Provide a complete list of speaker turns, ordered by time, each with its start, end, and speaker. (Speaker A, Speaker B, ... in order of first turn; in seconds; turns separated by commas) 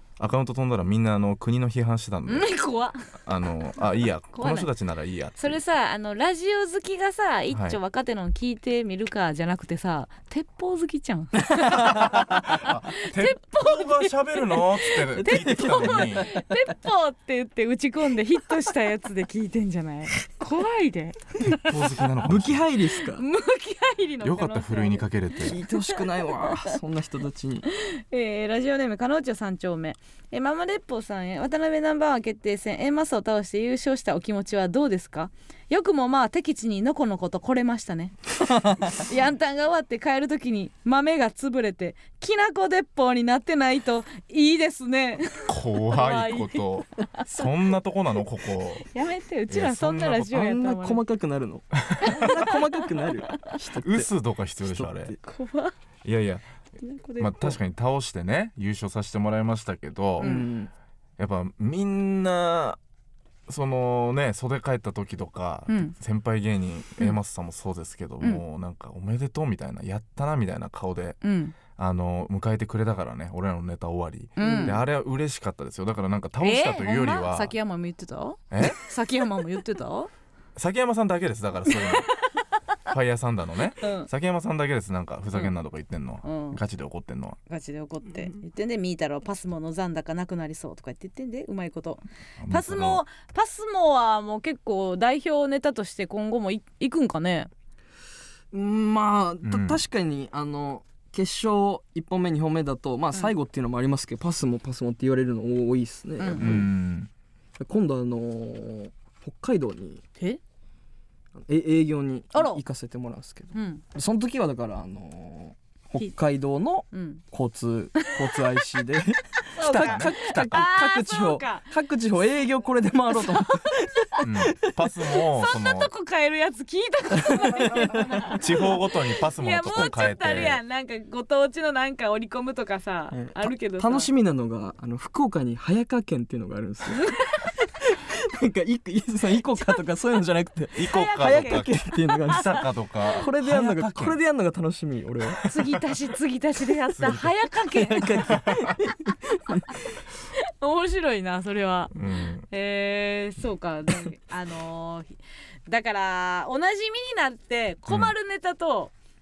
Speaker A: 0.2-2.5, Speaker B: 2.2-3.0, Speaker A: 3.2-5.6, Speaker B: 4.3-4.7, Speaker B: 5.4-21.7, Speaker A: 7.5-7.8, Speaker A: 11.7-16.2, Speaker C: 15.1-16.5, Speaker A: 21.4-22.6, Speaker C: 22.2-23.2, Speaker B: 23.1-25.0, Speaker A: 24.2-25.6, Speaker C: 25.4-27.6, Speaker B: 25.7-26.0, Speaker B: 27.7-38.1, Speaker C: 38.4-39.0, Speaker B: 38.8-46.7, Speaker A: 45.5-48.9, Speaker B: 48.9-51.0, Speaker A: 49.5-50.4, Speaker C: 50.3-55.2, Speaker B: 52.0-53.3, Speaker A: 53.8-55.1, Speaker B: 55.2-55.7, Speaker A: 56.0-56.5, Speaker B: 56.8-57.6, Speaker A: 57.2-60.3, Speaker C: 60.2-60.7, Speaker B: 60.2-60.4, Speaker A: 61.2-62.8, Speaker A: 63.5-71.2, Speaker B: 65.7-65.9, Speaker B: 71.2-71.5, Speaker A: 71.7-77.5, Speaker B: 74.3-74.8, Speaker C: 74.4-74.8, Speaker B: 76.4-80.1, Speaker A: 78.5-78.8, Speaker A: 80.5-82.1, Speaker B: 81.7-82.0, Speaker A: 82.9-87.4, Speaker B: 83.8-84.1, Speaker B: 86.2-86.6, Speaker B: 87.5-97.5, Speaker A: 92.4-93.0, Speaker C: 98.5-106.7, Speaker A: 99.4-99.8, Speaker B: 106.2-106.7, Speaker A: 106.3-107.1, Speaker C: 107.6-110.0, Speaker C: 111.3-124.9, Speaker B: 112.3-112.6, Speaker B: 113.5-113.8, Speaker B: 116.9-117.2, Speaker B: 118.0-118.3, Speaker B: 119.5-121.7, Speaker A: 119.6-120.7, Speaker B: 123.1-123.7, Speaker A: 124.2-125.9, Speaker B: 125.2-134.1, Speaker C: 127.2-128.3, Speaker A: 128.2-130.6, Speaker C: 133.1-137.2, Speaker B: 137.0-137.5, Speaker C: 137.8-145.4, Speaker A: 140.8-141.7, Speaker B: 140.8-141.7, Speaker A: 142.3-144.2, Speaker B: 145.4-148.4, Speaker A: 146.9-147.3, Speaker C: 147.7-149.8, Speaker A: 148.3-148.7, Speaker B: 150.3-158.9, Speaker A: 151.9-152.4, Speaker A: 157.9-158.1